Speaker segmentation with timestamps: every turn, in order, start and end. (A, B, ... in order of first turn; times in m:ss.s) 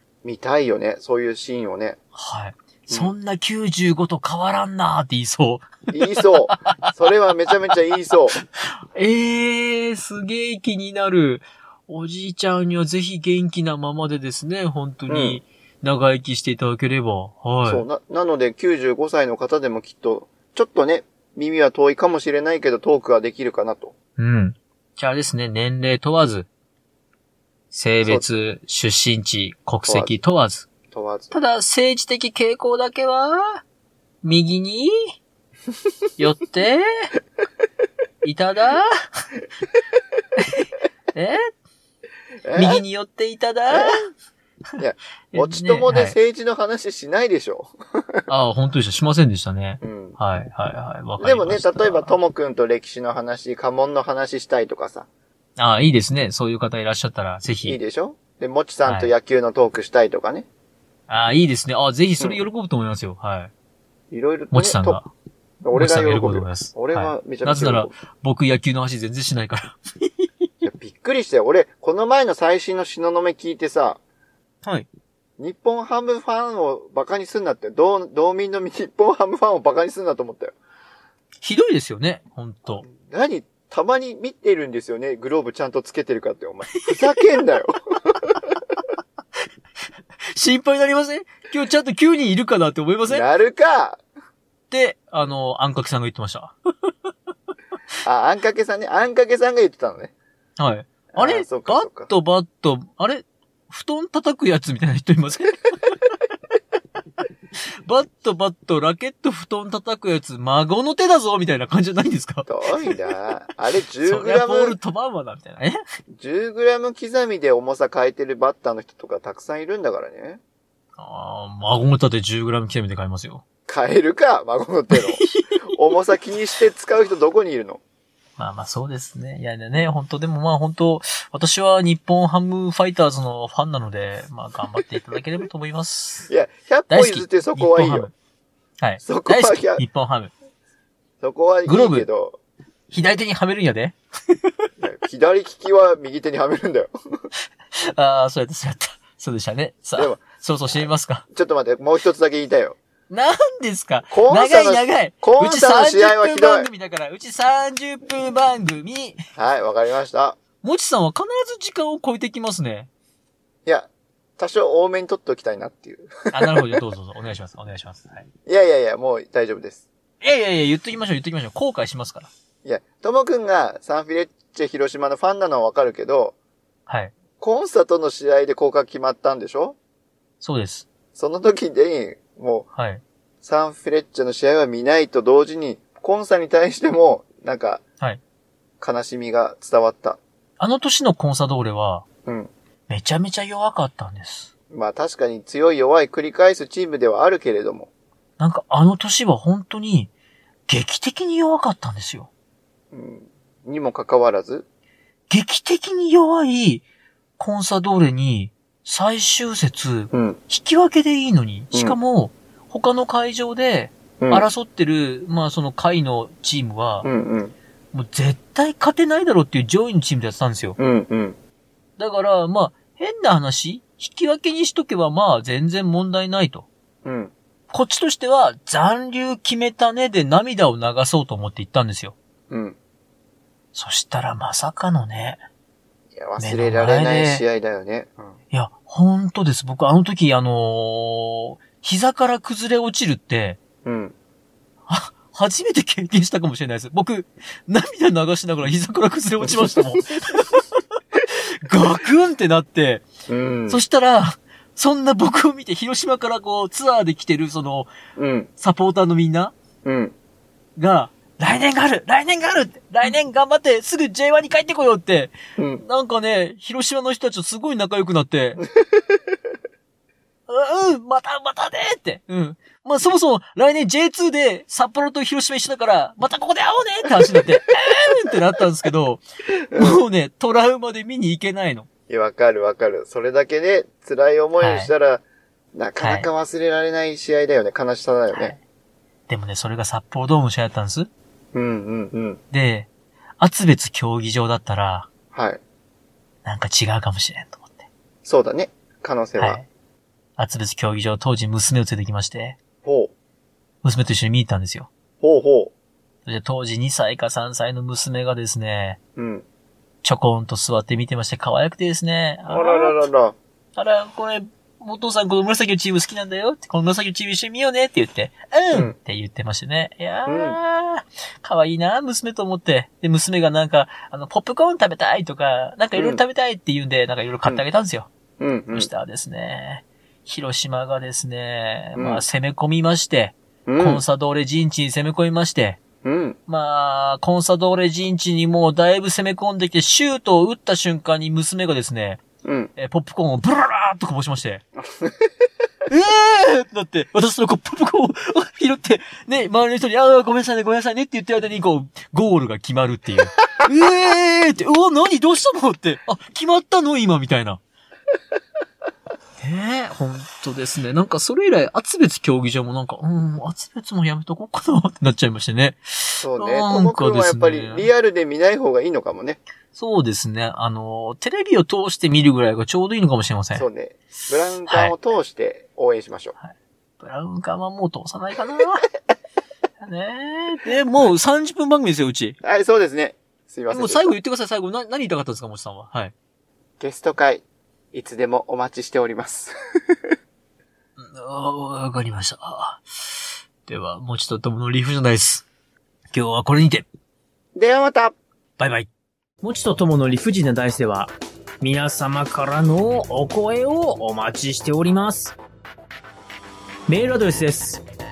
0:00.2-0:02.0 A
0:02.1-0:05.9 B
0:05.9-0:08.4 A
0:06.5-0:06.9 B
0:08.4-0:17.8 B
0:15.1-0:15.4 A
0:17.6-0:23.9 A
0:24.2-0:26.5 B
0:27.7-0:30.7 B
0:29.8-0:30.2 A
0:30.9-0:31.3 A
0:31.3-0:33.6 B
0:34.2-0:35.1 B
0:36.2-0:36.8 B
0:38.2-0:39.2 B
0:40.4-0:41.4 B
0:42.4-0:42.8 A
0:42.5-0:44.1 B
0:43.7-0:44.0 A
0:44.8-0:48.2 A
0:45.3-0:46.2 B
0:48.3-0:52.1 B
0:49.8-0:50.2 A
0:51.2-0:55.1 A
0:55.6-0:57.8 B
0:57.6-1:00.4 A
0:58.8-0:59.1 B
1:01.1-1:03.5 B
1:04.1-1:05.0 A
1:04.5-1:05.1 B
1:05.6-1:07.9 A
1:05.7-1:10.5 B
1:10.6-1:14.0 A
1:15.4-1:20.5 A
1:21.4-1:22.8 B
1:22.8-1:28.6 A
1:30.3-1:33.2 B
1:33.1-1:34.0 A
1:34.7-1:36.9 B
1:38.0-1:40.1 A
1:40.6-1:45.6 B
1:41.1-1:42.1 A
1:47.6-1:52.5 B
1:52.5-1:54.8 A
1:54.0-1:55.8 B
1:56.1-2:00.4 A
2:01.0-2:03.4 B
2:03.7-2:07.8 A
2:04.9-2:05.6 B
2:08.4-2:16.3 B
2:16.3-2:18.1 A
2:16.9-2:18.1 B
2:18.8-2:20.3 B
2:19.0-2:19.8 A
2:21.2-2:22.4 A
2:21.7-2:22.1 B
2:22.9-2:24.7 B
2:24.8-2:27.2 A
2:27.7-2:31.2 B
2:30.0-2:30.2 A
2:30.8-2:32.8 A
2:33.1-2:39.2 B
2:34.1-2:36.7 A
2:39.4-2:40.4 A
2:40.6-2:42.9 B
2:43.6-2:46.8 A
2:46.3-2:48.3 B
2:48.4-2:49.8 A
2:50.2-2:52.3 B
2:52.6-2:56.3 A
2:56.9-2:57.1 B
2:57.4-2:59.8 A
3:00.4-3:00.8 B
3:01.2-3:02.7 A
3:02.8-3:03.0 B
3:03.4-3:07.8 A
3:08.8-3:10.2 A
3:10.6-3:12.0 B
3:12.2-3:12.5 A
3:12.9-3:14.5 B
3:14.7-3:17.9 A
3:18.4-3:20.1 B
3:20.7-3:22.3 B
3:22.9-3:24.6 A
3:25.3-3:26.8 B
3:27.4-3:37.1 B
3:30.1-3:30.4 A
3:31.7-3:32.0 A
3:34.2-3:34.4 A
3:37.0-3:37.6 A
3:37.9-3:40.8 B
3:40.8-3:41.4 A
3:42.0-3:46.7 B
3:47.0-3:47.3 A
3:47.7-3:52.1 B
3:52.5-3:52.8 A
3:53.7-3:55.4 B
3:56.2-3:58.3 A
3:56.4-3:57.4 B
3:58.5-4:03.6 B
4:03.8-4:04.1 A
4:04.9-4:13.1 B
4:09.5-4:09.8 A
4:13.3-4:13.8 A
4:13.7-4:17.9 B
4:18.2-4:18.5 A
4:18.6-4:19.5 B
4:19.8-4:20.1 A
4:20.8-4:28.6 B
4:25.6-4:25.8 A
4:30.5-4:39.2 B
4:39.7-4:40.0 A
4:39.7-4:41.9 B
4:42.1-4:45.2 A
4:44.6-4:44.9 B
4:45.7-4:48.5 A
4:46.0-4:46.3 B
4:48.3-4:48.6 B
4:49.3-4:51.1 B
4:51.5-4:52.4 A
4:52.5-4:55.1 B
4:55.3-4:55.6 A
4:56.4-4:57.9 B
4:58.2-4:59.6 A
4:59.4-4:59.6 B
5:00.4-5:02.6 B
5:02.8-5:03.1 A
5:03.8-5:04.9 B
5:05.2-5:05.7 A
5:06.2-5:09.0 B
5:09.2-5:09.4 A
5:10.0-5:13.0 B
5:12.5-5:13.4 A
5:13.8-5:28.1 B
5:20.2-5:20.6 A
5:26.0-5:26.2 A
5:28.4-5:28.9 A
5:28.7-5:35.8 B
5:32.0-5:32.2 A
5:33.6-5:34.0 A
5:36.0-5:36.4 A
5:36.5-5:42.2 B
5:42.4-5:42.7 A
5:42.8-5:44.6 B
5:44.8-5:45.1 A
5:45.9-5:57.6 B
5:59.4-6:07.9 B
6:06.2-6:09.4 A
6:09.7-6:13.6 B
6:13.5-6:16.4 A
6:14.7-6:14.9 B
6:16.4-6:18.9 B
6:19.8-6:22.4 B
6:22.4-6:24.1 A
6:23.7-6:26.1 B
6:26.8-6:29.5 A
6:31.0-6:35.4 B
6:36.1-6:36.9 B
6:37.5-6:38.2 A
6:38.6-6:38.9 B
6:39.4-6:45.4 B
6:46.9-6:47.8 B